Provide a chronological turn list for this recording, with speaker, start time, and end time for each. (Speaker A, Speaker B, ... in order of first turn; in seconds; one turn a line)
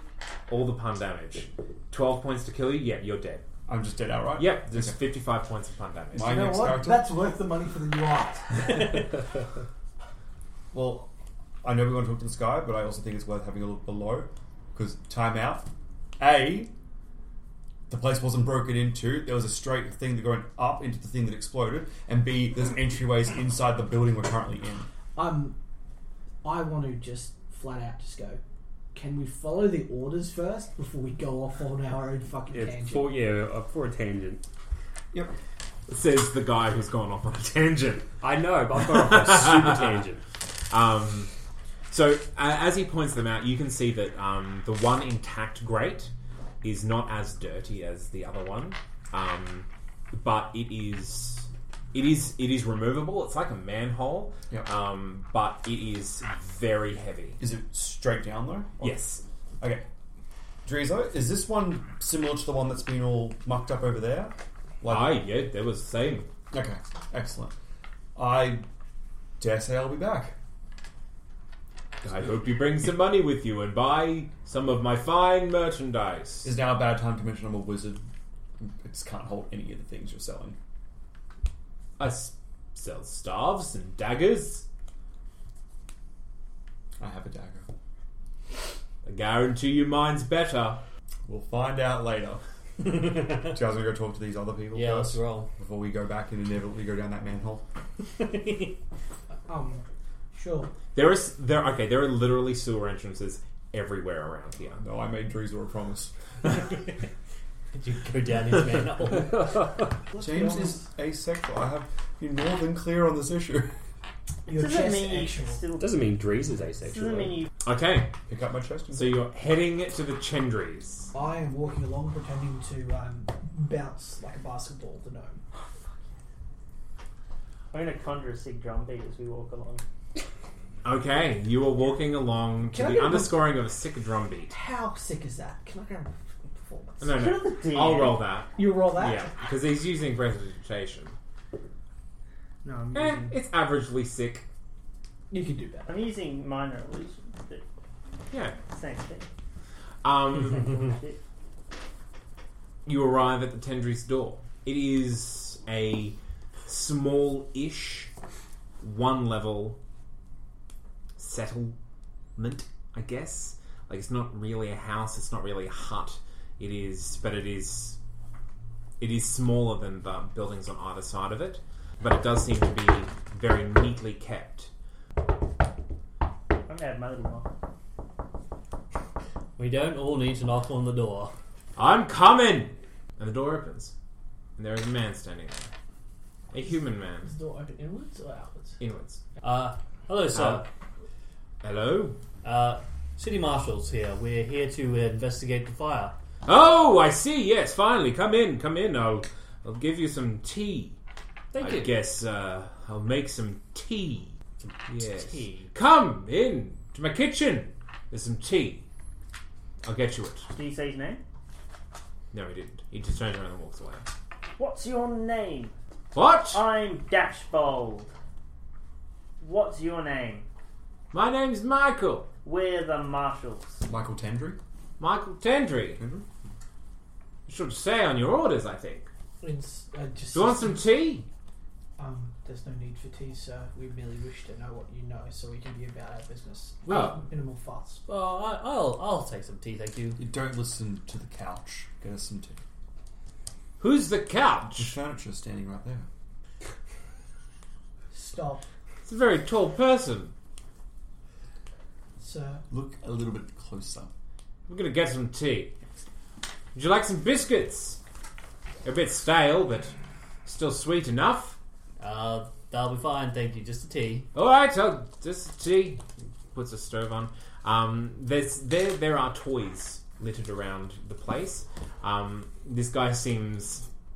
Speaker A: 0.5-3.4
Speaker B: 3.7-5.0
Speaker A: 4.3-6.3
Speaker B: 6.1-7.1
Speaker C: 6.2-9.1
Speaker B: 10.7-11.1
Speaker B: 11.6-16.7
Speaker B: 17.9-24.9
Speaker C: 25.1-25.6
Speaker C: 26.4-28.4
Speaker C: 28.9-33.2
Speaker D: 32.5-34.4
Speaker A: 35.9-38.1
Speaker D: 38.2-40.2
Speaker E: 38.8-39.3
Speaker A: 38.9-40.0
Speaker A: 40.7-41.3
Speaker A: 41.9-57.4
Speaker B: 57.4-59.0
Speaker A: 58.8-59.2
Speaker B: 59.6-59.9
Speaker B: 60.6-65.2
Speaker A: 64.8-66.3
Speaker B: 66.5-67.5
Speaker B: 68.1-68.7
Speaker B: 69.4-70.3
Speaker A: 72.0-76.5
Speaker B: 76.4-78.0
Speaker B: 78.6-80.6
Speaker A: 82.0-84.7
Speaker B: 87.0-87.7
Speaker A: 89.0-90.8
Speaker B: 91.3-97.7
Speaker E: 92.9-93.5
Speaker E: 94.7-95.5
Speaker E: 98.2-98.7
Speaker C: 99.5-100.7
Speaker A: 100.9-104.8
Speaker B: 104.8-106.1
Speaker E: 107.8-109.8
Speaker C: 110.1-110.8
Speaker B: 110.2-113.7
Speaker C: 114.5-115.6
Speaker F: 114.5-116.1
Speaker D: 115.8-117.5
Speaker F: 116.8-117.5
Speaker A: 117.6-118.1
Speaker B: 118.3-119.2
Speaker A: 118.9-121.1
Speaker C: 121.1-125.5
Speaker F: 127.7-129.8
Speaker A: 130.8-134.5
Speaker C: 132.7-133.4
Speaker C: 134.5-137.5
Speaker A: 137.0-141.2
Speaker F: 137.2-138.2
Speaker C: 138.5-139.3
Speaker F: 142.6-143.3
Speaker A: 142.9-144.4
Speaker C: 145.3-146.0
Speaker F: 145.9-147.6
Speaker A: 148.3-148.6
Speaker F: 148.7-149.3
Speaker A: 150.0-150.7
Speaker F: 150.3-151.2
Speaker A: 152.8-158.1
Speaker A: 158.8-159.8
Speaker A: 161.2-161.8
Speaker A: 162.3-168.0
Speaker A: 169.0-174.7
Speaker F: 176.7-177.5
Speaker E: 179.6-181.3
Speaker A: 181.8-183.9
Speaker A: 184.6-185.7
Speaker A: 186.5-187.3
Speaker C: 187.2-188.8
Speaker A: 188.8-189.2
Speaker E: 189.4-190.7
Speaker A: 190.3-190.7
Speaker A: 191.6-192.2
Speaker E: 192.4-196.2
Speaker A: 196.4-201.0
Speaker E: 201.5-201.9
Speaker A: 201.6-204.4
Speaker E: 204.6-205.7
Speaker A: 204.9-208.9
Speaker A: 209.8-210.5
Speaker F: 210.5-211.2
Speaker A: 212.3-214.1
Speaker F: 214.6-215.7
Speaker A: 216.1-216.6
Speaker F: 216.5-218.1
Speaker F: 219.4-220.4
Speaker A: 221.1-222.3
Speaker F: 222.4-223.8
Speaker B: 223.8-224.6
Speaker A: 225.0-226.0
Speaker B: 226.0-226.3
Speaker A: 227.5-229.1
Speaker C: 229.4-230.8
Speaker A: 230.3-231.3
Speaker C: 232.0-238.0
Speaker A: 236.8-237.2
Speaker E: 238.1-240.2
Speaker B: 240.2-242.6
Speaker A: 243.8-244.9
Speaker B: 244.7-246.1
Speaker C: 248.1-248.7
Speaker A: 249.0-250.3
Speaker C: 252.2-252.6
Speaker B: 252.7-254.1
Speaker A: 254.7-255.7
Speaker A: 256.7-258.0
Speaker A: 258.8-261.6
Speaker E: 262.0-264.3
Speaker A: 264.3-273.9